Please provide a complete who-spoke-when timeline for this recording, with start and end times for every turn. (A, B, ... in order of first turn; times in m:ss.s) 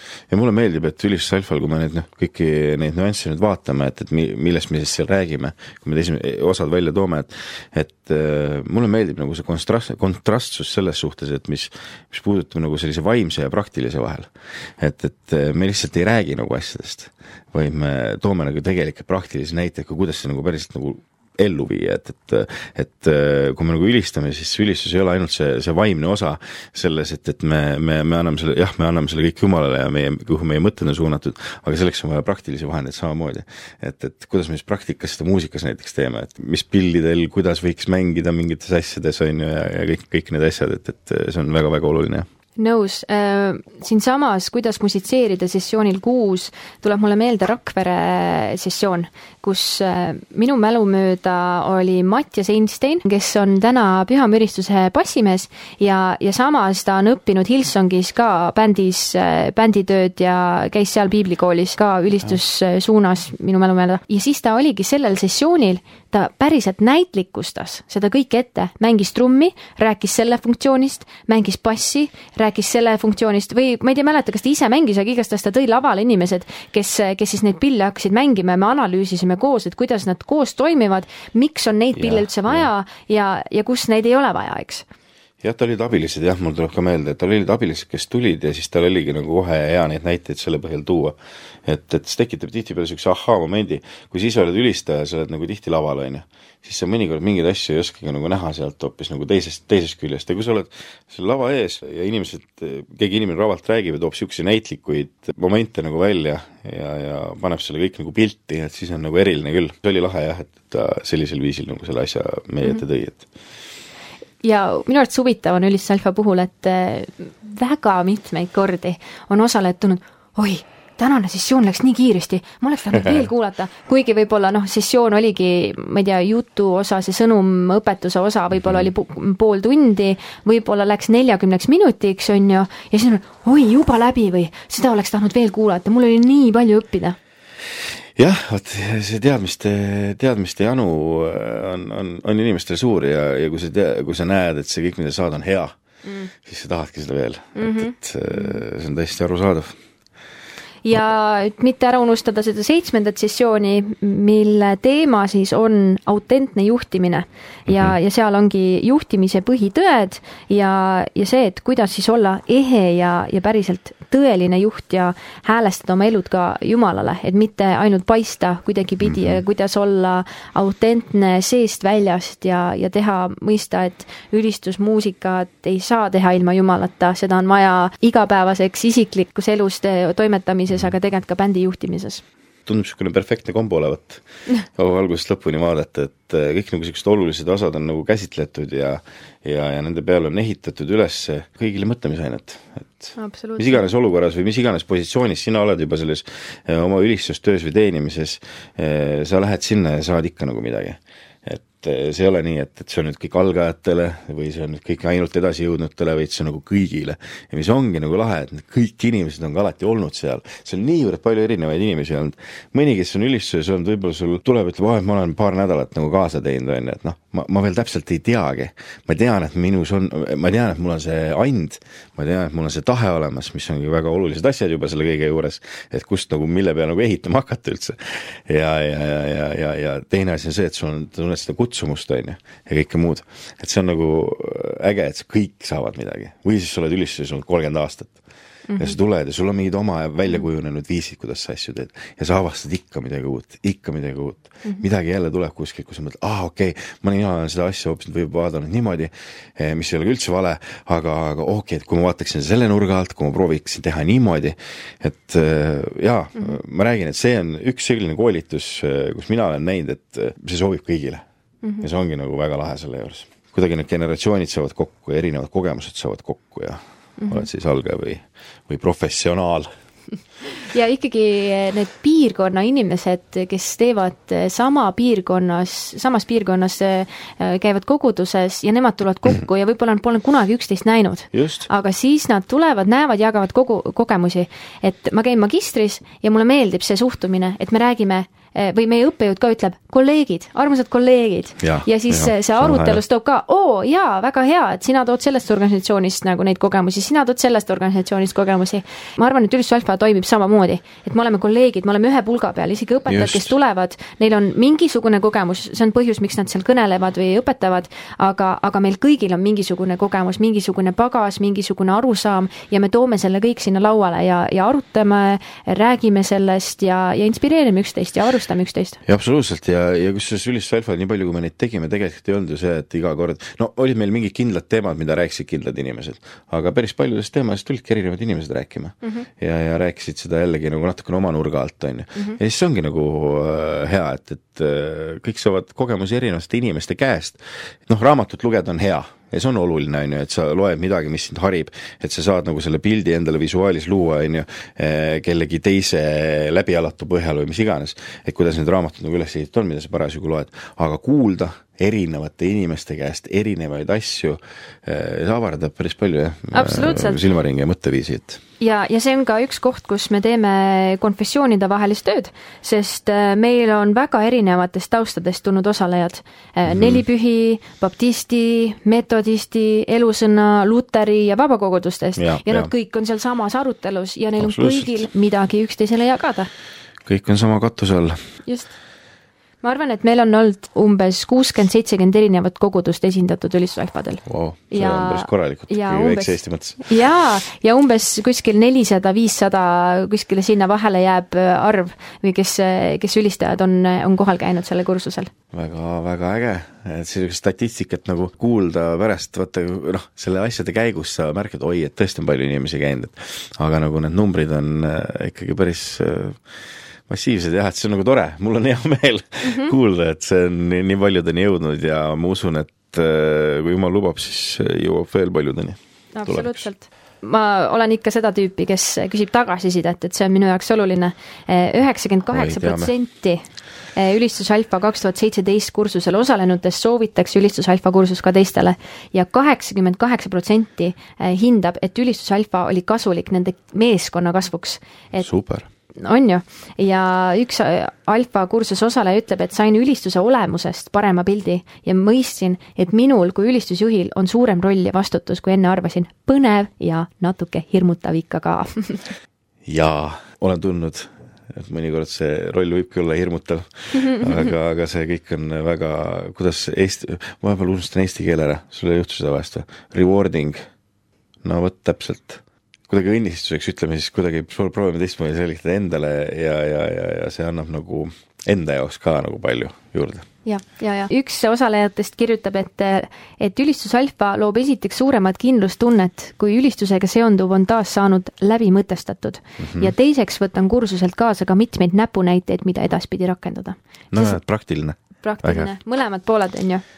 0:00.3-0:42.2 A
0:42.6-1:24.8 B
1:22.0-1:22.7 A
1:25.4-1:53.2 A
1:54.4-2:17.2 B
2:08.5-2:08.9 A
2:18.2-2:25.7 A
2:26.0-2:26.3 B
2:26.4-2:29.7 A
2:27.6-2:28.6 B
2:30.8-3:02.2 B
2:37.7-2:37.9 A
2:49.0-2:49.4 A
3:02.6-3:04.2 A
3:04.7-3:58.2 A
3:13.2-3:13.8 B
3:58.7-3:58.9 B
3:58.8-4:21.2 A
4:21.8-4:29.7 A
4:27.2-4:27.5 B
4:30.5-5:19.0 B
4:41.3-4:41.7 A
4:51.6-4:53.0 A
5:03.1-5:03.5 A
5:19.0-5:58.4 A
5:29.0-5:29.3 B
5:56.5-5:57.2 B
5:58.6-6:16.5 B
6:06.7-6:07.0 A
6:12.2-6:12.7 A
6:14.4-6:14.9 A
6:17.0-6:18.2 A
6:18.4-6:18.7 B
6:19.6-6:35.3 B
6:24.2-6:26.9 A
6:35.5-6:46.4 A
6:47.1-6:56.7 A
6:49.4-6:49.7 B
6:56.1-7:03.4 B
7:02.3-7:02.9 A
7:03.9-7:15.2 B
7:15.2-7:15.7 A
7:16.0-7:29.0 B
7:29.6-7:40.6 A
7:33.9-7:34.5 B
7:41.4-7:50.2 A
7:50.4-8:04.4 B
7:59.6-7:59.9 A
8:04.1-8:05.7 A
8:05.2-8:06.8 B